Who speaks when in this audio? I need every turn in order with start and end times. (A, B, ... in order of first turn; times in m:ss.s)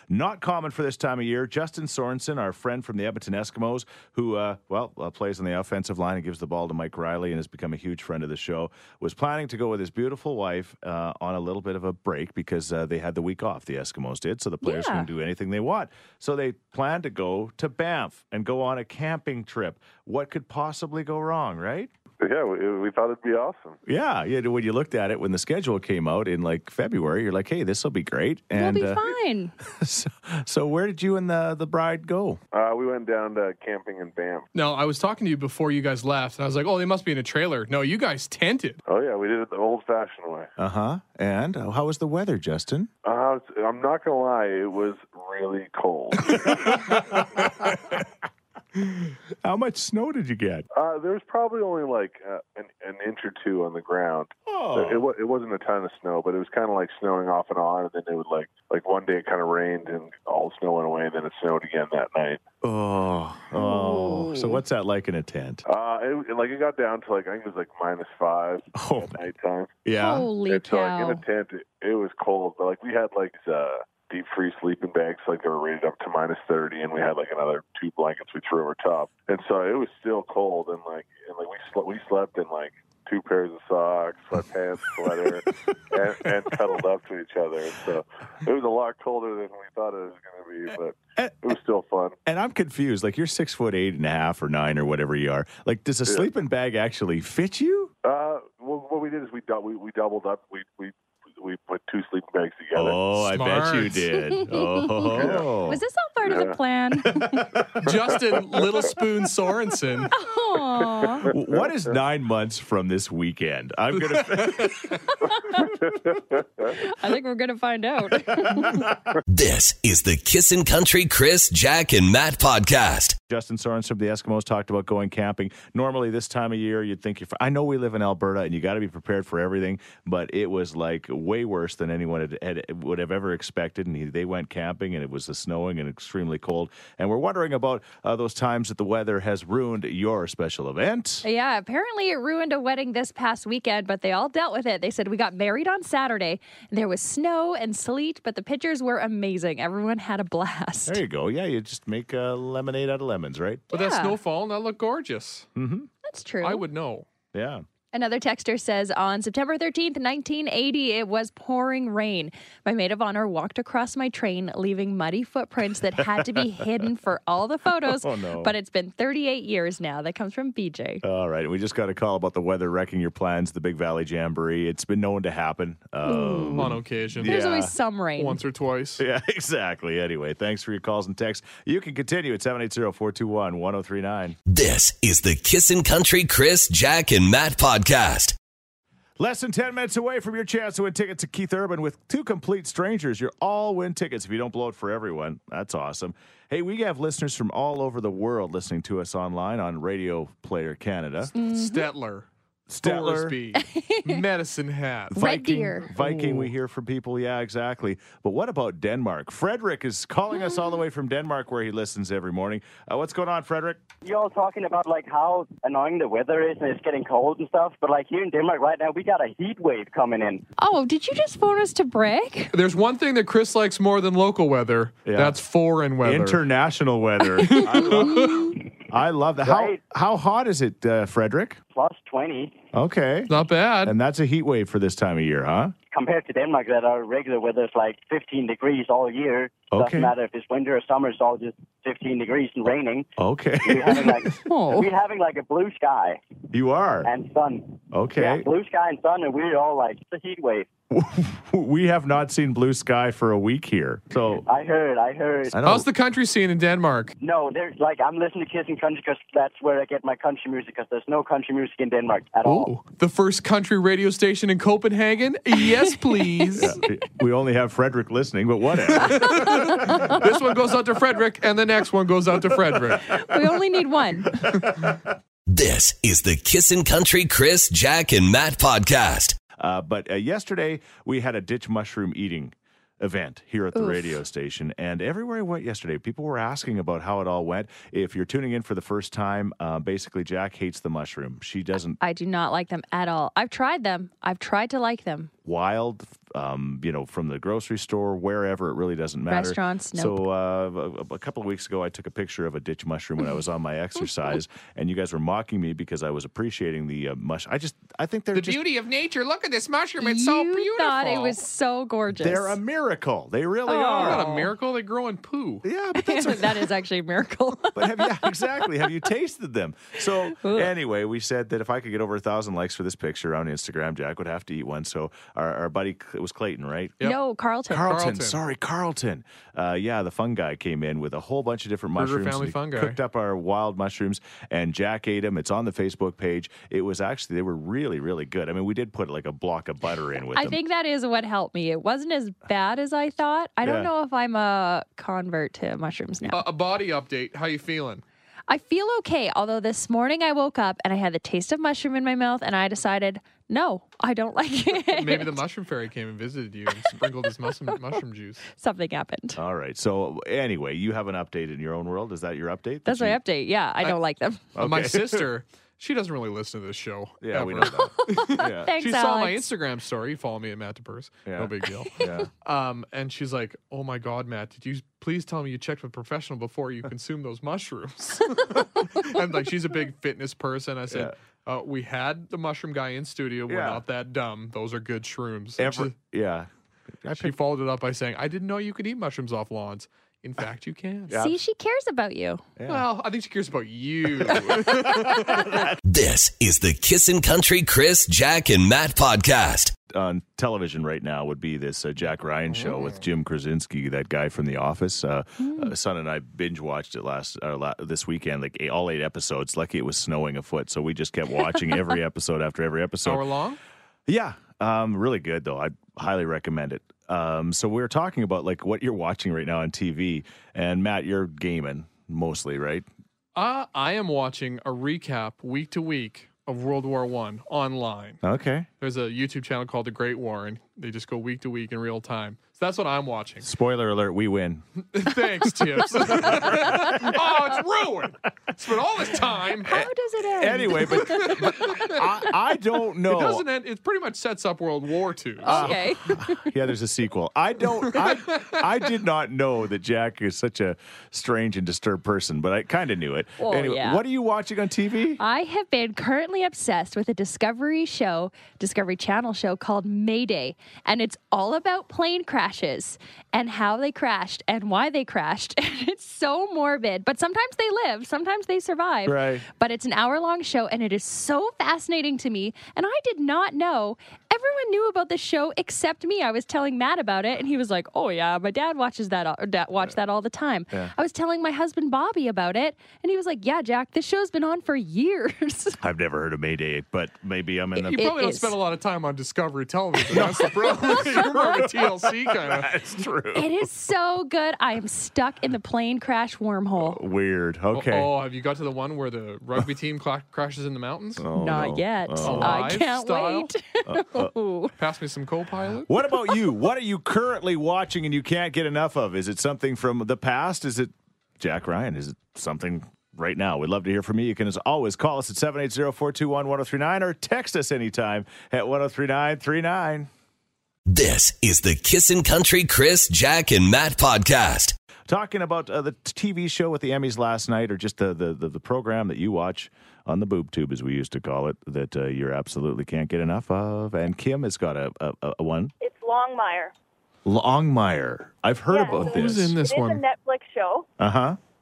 0:00.1-0:21.9 A
0:14.6-0:15.1 B
0:22.2-0:23.8 C
0:23.8-0:29.1 A
0:28.5-0:29.5 B
0:29.6-0:32.4 A
0:32.5-0:34.5 C
0:34.5-0:38.8 D
0:38.9-0:40.5 C
0:40.6-0:42.9 A
0:43.0-0:46.9 C
0:46.2-0:48.0 A
0:49.4-0:50.6 A
0:50.7-1:02.4 C
0:54.5-0:55.0 A
1:02.6-1:05.6 A
1:03.5-1:04.6 B
1:05.6-1:09.8 C
1:08.7-1:09.2 A
1:09.8-1:10.3 A
1:10.0-1:11.2 B
1:10.5-1:32.2 C
1:31.2-1:31.5 A
1:32.2-1:37.9 A
1:38.0-1:43.0 C
1:42.7-1:45.8 A
1:43.1-1:44.1 D
1:44.1-1:47.5 B
1:45.1-1:45.4 C
1:46.2-1:46.5 C
1:47.0-1:47.8 A
1:47.8-1:50.1 D
1:50.1-1:51.3 B
1:51.0-1:51.3 C
1:51.3-1:54.9 A
1:54.0-1:54.6 D
1:55.3-1:55.7 B
1:55.9-1:56.4 C
1:56.7-1:58.9 B
1:58.5-1:58.9 A
1:59.3-2:03.2 E
2:03.3-2:21.2 A
2:21.2-2:31.0 B
2:30.8-2:33.7 A
2:33.7-2:34.2 B
2:33.7-2:35.5 D
2:35.6-2:35.9 A
2:36.0-2:36.6 B
2:36.4-2:37.1 D
2:37.3-2:37.6 A
2:37.9-2:51.0 B
2:46.0-2:46.6 A
2:47.7-2:48.5 A
2:51.0-2:57.7 A
2:56.0-2:58.4 B
2:56.5-2:57.6 D
2:58.2-2:59.0 D
2:59.0-3:04.4 A
3:04.5-3:08.3 E
3:09.2-3:21.3 A
3:21.3-3:21.9 B
3:21.3-3:22.3 D
3:22.7-3:23.4 A
3:22.8-3:26.5 D
3:23.6-3:24.2 B
3:25.1-3:25.9 B
3:25.1-3:33.8 A
3:34.0-3:40.4 F
3:40.6-3:42.6 B
3:42.5-3:46.4 D
3:45.0-3:45.4 A
3:46.0-3:51.6 A
3:47.4-3:48.5 D
3:47.6-3:48.5 B
3:49.4-3:49.8 F
3:51.7-3:52.6 F
3:52.7-3:55.7 A
3:53.3-3:54.0 D
3:55.9-4:03.1 F
3:59.7-4:00.1 A
4:03.2-4:04.3 A
4:03.6-4:06.2 F
4:04.4-4:04.9 B
4:06.5-4:07.1 A
4:07.0-4:10.7 F
4:07.9-4:08.5 A
4:10.9-4:14.4 A
4:14.4-4:15.6 F
4:15.5-4:15.9 A
4:15.6-4:17.1 D
4:17.2-4:22.7 F
4:22.4-4:26.8 D
4:26.1-4:26.7 B
4:26.6-4:29.4 A
4:28.8-4:33.2 D
4:29.4-4:30.2 B
4:33.1-4:34.4 B
4:35.5-4:39.4 E
4:39.6-4:52.0 A
4:43.7-4:44.2 B
4:52.0-4:55.3 B
4:55.4-5:08.7 A
4:59.3-5:00.2 B
5:08.3-5:11.4 D
5:10.0-5:12.6 B
5:12.1-5:14.2 A
5:13.6-5:14.5 B
5:13.9-5:15.6 D
5:15.6-5:16.7 A
5:16.0-5:18.6 B
5:17.7-5:27.0 A
5:20.3-5:20.7 B
5:27.0-5:28.0 B
5:27.7-5:40.6 A
5:27.8-5:28.4 D
5:32.0-5:33.0 D
5:40.3-5:46.4 B
5:43.6-5:43.9 A
5:46.3-5:48.0 D
5:48.5-5:55.4 B
5:54.8-5:58.4 D
5:58.5-5:59.4 B
5:59.3-6:03.2 A
6:02.8-6:04.5 B
6:04.6-6:05.3 A
6:04.6-6:25.9 D
6:07.2-6:08.7 A
6:07.7-6:09.5 B
6:11.2-6:12.3 A
6:11.8-6:12.1 B
6:20.9-6:21.1 A
6:23.5-6:23.8 A
6:25.6-6:26.5 A
6:27.0-6:27.4 A
6:27.1-6:31.2 D
6:31.1-6:31.4 A
6:31.1-6:32.4 B
6:32.6-6:32.9 A
6:32.7-6:35.6 D
6:34.2-6:35.8 A
6:35.8-6:39.7 E
6:39.9-6:53.3 A
6:42.5-6:43.0 D
6:45.4-6:45.7 B
6:53.0-6:53.6 D
6:54.1-7:02.9 A
7:03.3-7:08.2 D
7:08.2-7:08.7 A
7:08.8-7:13.5 D
7:13.4-7:14.6 A
7:14.9-7:19.8 D
7:15.4-7:17.2 A
7:19.6-7:21.4 B
7:19.6-7:23.4 A
7:21.0-7:22.0 D
7:23.0-7:25.8 D
7:25.4-7:26.5 B
7:25.4-7:35.2 A
7:27.9-7:28.8 D
7:33.4-7:34.0 B
7:35.2-8:05.8 B
7:49.0-7:49.4 A
8:05.8-8:08.1 A
8:07.8-8:08.6 B
8:07.8-8:12.8 D
8:10.1-8:13.5 A
8:13.3-8:17.0 B
8:16.8-8:18.1 A
8:17.7-8:21.3 D
8:21.2-8:22.7 A
8:21.3-8:24.7 B
8:22.2-8:23.5 D
8:23.9-8:24.3 A
8:24.8-8:25.9 D
8:25.8-8:40.1 A
8:40.8-8:44.7 E
8:45.1-8:55.7 A
8:55.8-8:56.7 G
8:57.2-8:59.6 A
8:58.7-9:00.9 G
8:58.9-9:00.0 D
9:01.0-9:01.4 A